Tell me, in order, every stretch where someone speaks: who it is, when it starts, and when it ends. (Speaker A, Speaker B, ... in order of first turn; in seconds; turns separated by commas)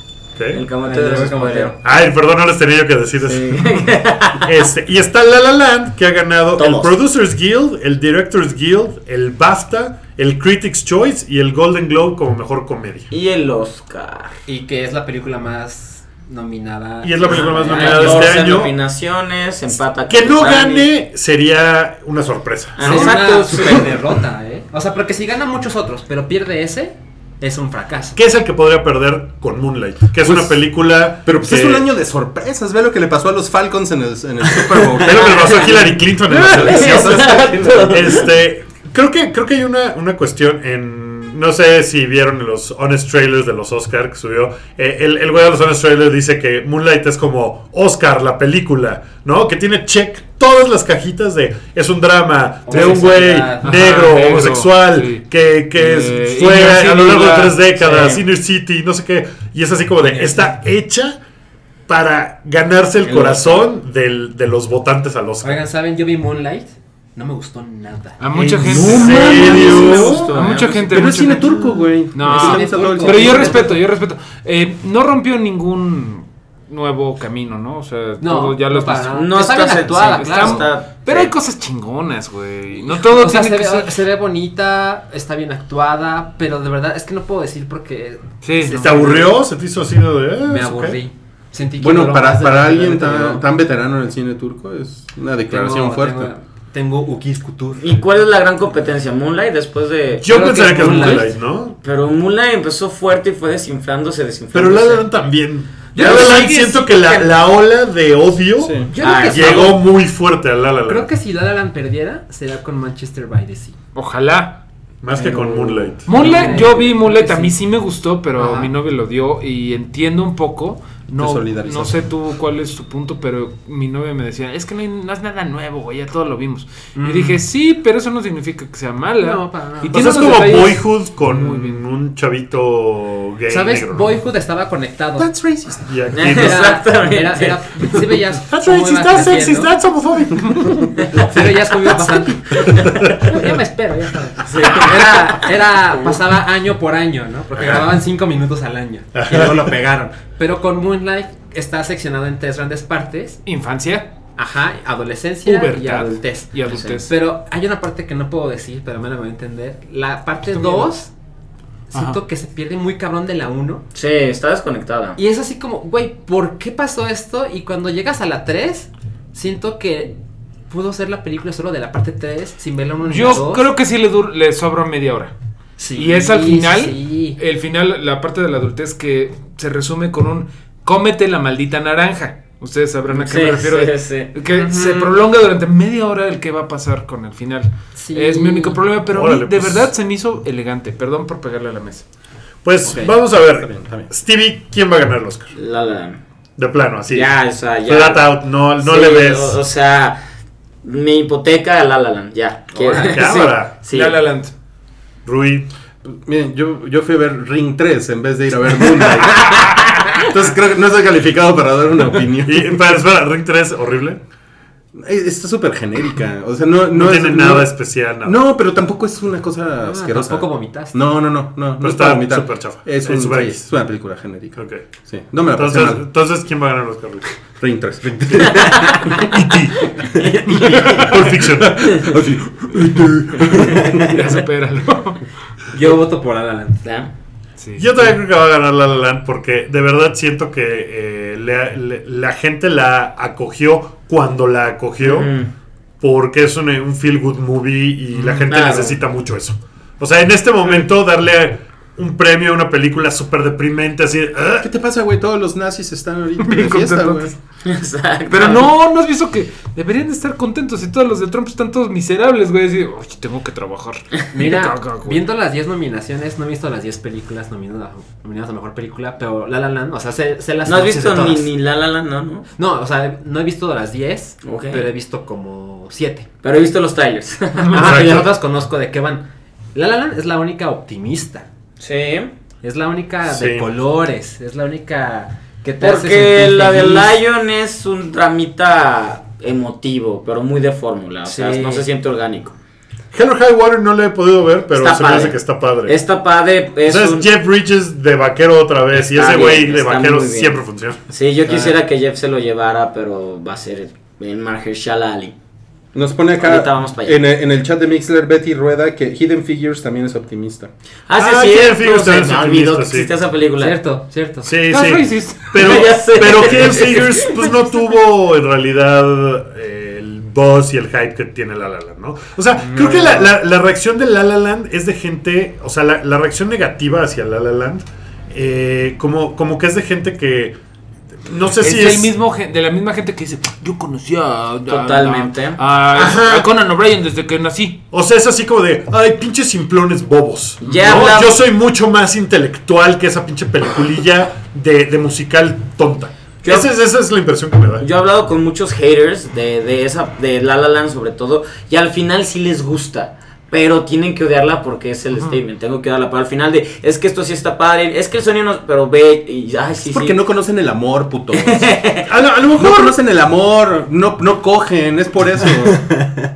Speaker A: 0.3-0.6, Speaker B: 0.5-1.8, Speaker C: 0.8-1.8, Speaker A: 1.8-3.9, Speaker B: 3.2-4.6, Speaker A: 4.4-13.1, Speaker B: 6.6-6.9, Speaker B: 13.1-14.4, Speaker C: 14.5-18.5, Speaker A: 17.0-18.7, Speaker B: 17.3-20.9, Speaker A: 20.1-23.1, Speaker B: 22.8-23.9, Speaker C: 22.8-28.2, Speaker A: 28.1-31.9, Speaker D: 30.2-30.6, Speaker D: 31.2-38.2, Speaker A: 35.0-61.2, Speaker B: 35.2-35.7, Speaker B: 36.4-38.3, Speaker C: 52.6-53.8, Speaker E: 52.7-53.0, Speaker E: 53.6-57.7, Speaker B: 57.9-58.2, Speaker C: 60.1-60.4, Speaker A: 61.9-65.6, Speaker B: 63.0-63.6, Speaker C: 65.4-70.2, Speaker E: 68.2-79.2, Speaker A: 68.4-70.5, Speaker B: 69.0-71.1, Speaker D: 69.3-69.6, Speaker D: 70.9-73.6, Speaker C: 72.2-73.8, Speaker C: 78.2-80.7, Speaker B: 79.1-81.3, Speaker E: 80.0-84.0, Speaker C: 82.9-89.4, Speaker E: 88.4-89.2, Speaker A: 88.8-91.0, Speaker C: 90.5-93.5, Speaker D: 91.8-96.3, Speaker C: 95.5-98.0, Speaker B: 97.8-101.2, Speaker A: 100.2-101.8, Speaker C: 100.3-101.3, Speaker B: 101.8-105.1, Speaker A: 104.5-111.1, Speaker E: 105.9-107.2, Speaker C: 106.0-106.5, Speaker D: 108.6-108.9, Speaker C: 108.9-109.8, Speaker B: 109.0-109.8, Speaker C: 110.9-113.8, Speaker E: 113.9-114.6, Speaker A: 115.0-116.4, Speaker C: 115.2-117.5, Speaker E: 116.0-131.8, Speaker C: 118.3-118.7, Speaker D: 121.2-122.1, Speaker C: 127.0-127.4, Speaker C: 129.2-130.3, Speaker A: 129.9-134.2, Speaker C: 133.5-139.7, Speaker D: 135.2-135.8, Speaker A: 135.8-136.8, Speaker B: 136.1-137.9, Speaker A: 138.5-141.1, Speaker C: 141.0-153.4, Speaker B: 142.6-143.1, Speaker A: 142.6-143.6, Speaker B: 144.5-145.4, Speaker A: 147.6-147.9, Speaker A: 149.1-149.7, Speaker E: 153.4-154.1, Speaker C: 154.3-161.1, Speaker E: 155.4-157.1, Speaker B: 156.7-157.0, Speaker E: 160.5-160.9, Speaker C: 161.9-163.8, Speaker E: 161.9-162.2, Speaker B: 163.9-165.2, Speaker C: 165.2-170.1, Speaker C: 170.7-173.7, Speaker E: 173.0-175.3, Speaker C: 175.8-177.4, Speaker E: 175.9-192.0, Speaker B: 183.1-184.3, Speaker C: 184.5-185.1, Speaker C: 187.9-188.8, Speaker A: 189.1-189.9, Speaker A: 192.6-195.5, Speaker C: 192.8-193.1, Speaker D: 193.5-194.1, Speaker B: 195.5-196.2, Speaker A: 196.6-197.3, Speaker B: 197.1-200.2, Speaker A: 197.8-199.6, Speaker B: 200.8-204.2, Speaker E: 202.9-203.3, Speaker A: 203.1-203.7, Speaker E: 203.8-204.5, Speaker A: 205.2-205.7, Speaker D: 206.0-213.0, Speaker A: 212.4-214.2, Speaker D: 214.9-226.0, Speaker A: 216.9-218.4, Speaker C: 219.8-221.0, Speaker A: 221.8-223.6, Speaker A: 224.6-224.8, Speaker A: 225.5-227.3, Speaker D: 227.6-229.0, Speaker A: 228.3-229.9, Speaker B: 228.5-229.2, Speaker B: 230.0-231.1, Speaker D: 230.4-234.3, Speaker A: 230.5-232.2, Speaker E: 233.7-235.2, Speaker C: 235.7-236.9, Speaker B: 236.8-237.1, Speaker E: 237.6-238.1, Speaker A: 237.8-245.3, Speaker B: 245.0-245.5, Speaker A: 246.0-254.7, Speaker E: 248.1-248.6, Speaker B: 248.5-249.0, Speaker D: 254.6-257.3, Speaker E: 256.4-257.3, Speaker B: 257.6-258.7, Speaker E: 258.3-265.2, Speaker C: 264.3-271.5, Speaker B: 270.6-272.5, Speaker C: 272.6-276.3, Speaker B: 274.4-274.9, Speaker B: 276.4-278.0, Speaker C: 277.7-281.5, Speaker A: 277.8-278.3, Speaker B: 281.8-282.3, Speaker C: 282.6-287.2, Speaker A: 283.3-283.7, Speaker B: 285.8-292.6, Speaker C: 291.2-291.8, Speaker A: 293.1-295.9, Speaker B: 294.7-297.3, Speaker A: 296.9-301.0, Speaker B: 298.9-305.3, Speaker D: 305.9-310.7, Speaker B: 306.4-307.2, Speaker B: 311.1-313.8, Speaker A: 311.2-313.1, Speaker C: 313.6-314.5, Speaker A: 314.4-330.6, Speaker E: 314.6-315.8, Speaker B: 315.5-317.3, Speaker C: 322.6-323.2, Speaker A: 331.2-332.1, Speaker E: 331.6-337.8, Speaker B: 334.7-335.6, Speaker A: 335.9-336.5, Speaker A: 337.9-347.9, Speaker B: 340.6-341.4, Speaker E: 340.7-341.1, Speaker B: 347.8-360.2, Speaker D: 359.8-361.8, Speaker B: 361.3-362.1, Speaker A: 362.1-362.9, Speaker D: 362.5-366.2